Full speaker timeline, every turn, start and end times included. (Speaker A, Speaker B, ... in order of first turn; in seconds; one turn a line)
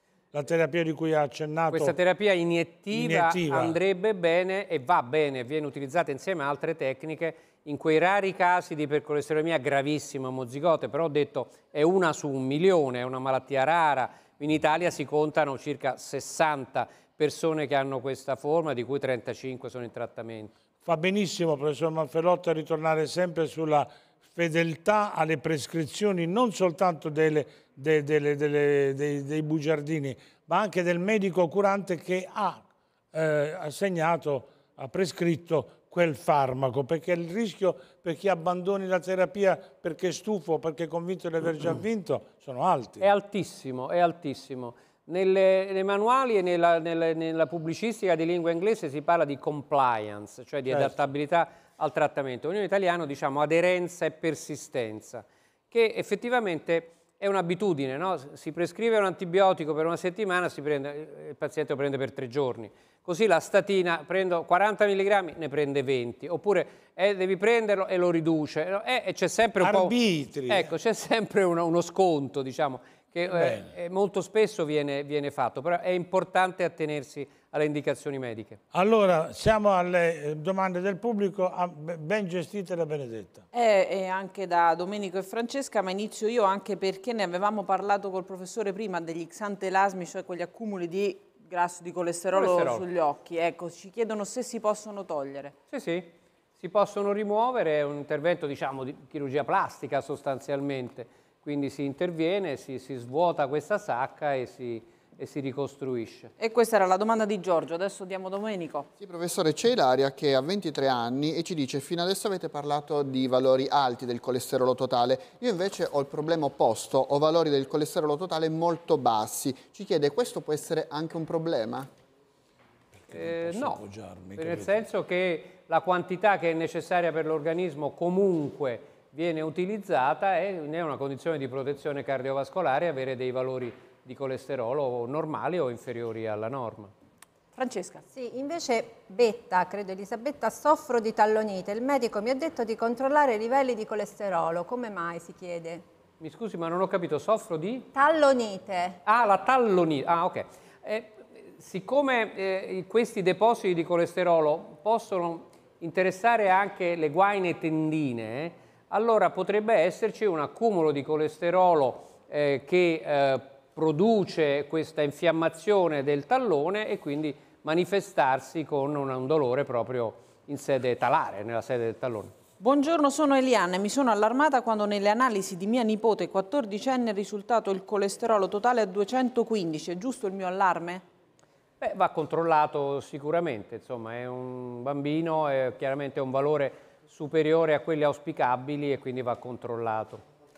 Speaker A: 0.3-2.0
Speaker B: 1.7-20.5
Speaker A: 2.9-3.8
Speaker A: 20.8-43.1
Speaker B: 43.0-69.9
Speaker A: 50.7-50.9
Speaker A: 69.6-70.7
Speaker B: 70.5-78.6
Speaker A: 73.3-73.7
Speaker A: 78.7-83.4
Speaker C: 83.5-95.5
Speaker B: 92.3-92.8
Speaker B: 95.7-106.3
Speaker C: 106.4-108.9
Speaker D: 109.0-121.9
Speaker A: 123.0-124.8
Speaker B: 123.1-123.8
Speaker B: 124.4-136.9
Speaker C: 137.6-138.0
Speaker E: 138.1-145.8
Speaker B: 146.2-147.9
Speaker E: 147.9-149.0
Speaker B: 149.1-172.3
Speaker C: 172.6-181.0
Speaker B: 181.8-190.2